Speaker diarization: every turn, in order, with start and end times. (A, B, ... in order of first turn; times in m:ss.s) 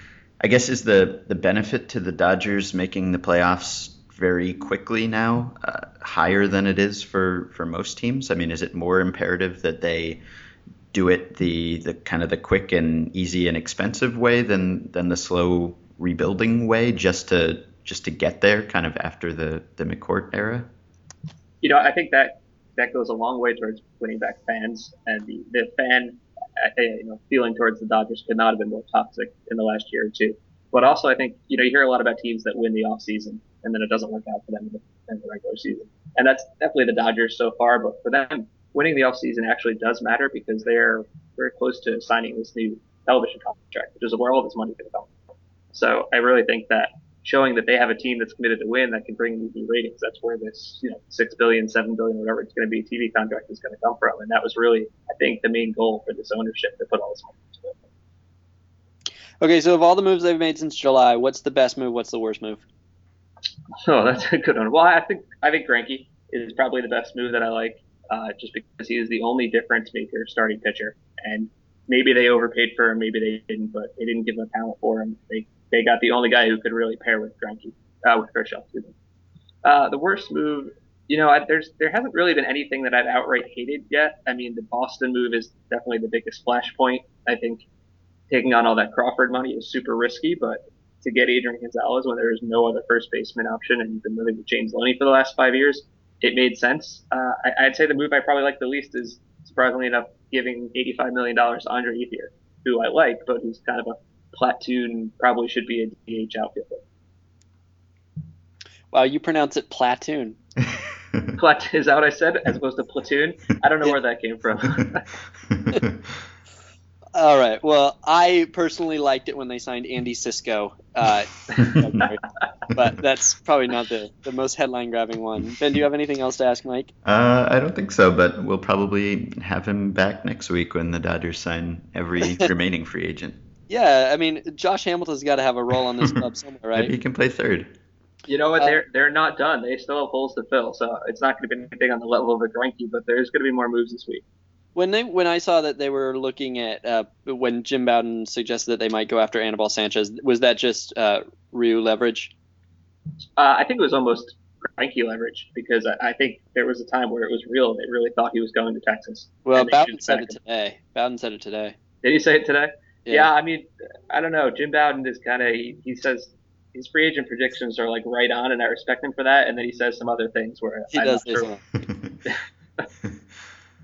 0:00.4-0:10.2 A
0:10.9-0:20.7 A
0:21.6-0:45.1 B
0:45.7-0:57.8 B
0:59.4-1:02.6 C
1:03.8-1:18.9 B
1:19.6-1:27.6 B
1:28.3-1:46.8 B
1:48.9-1:50.4 C
1:51.4-1:55.1 B
1:57.1-2:06.9 C
2:07.0-2:13.4 A
2:13.7-2:16.9 C
2:16.7-2:17.7 A
2:18.3-2:24.2 B
2:24.7-2:32.3 C
2:33.4-2:40.4 B
2:39.4-2:41.7 C
2:42.0-2:51.5 B
2:50.9-2:51.6 C
2:51.8-2:52.1 A
2:52.2-2:52.9 B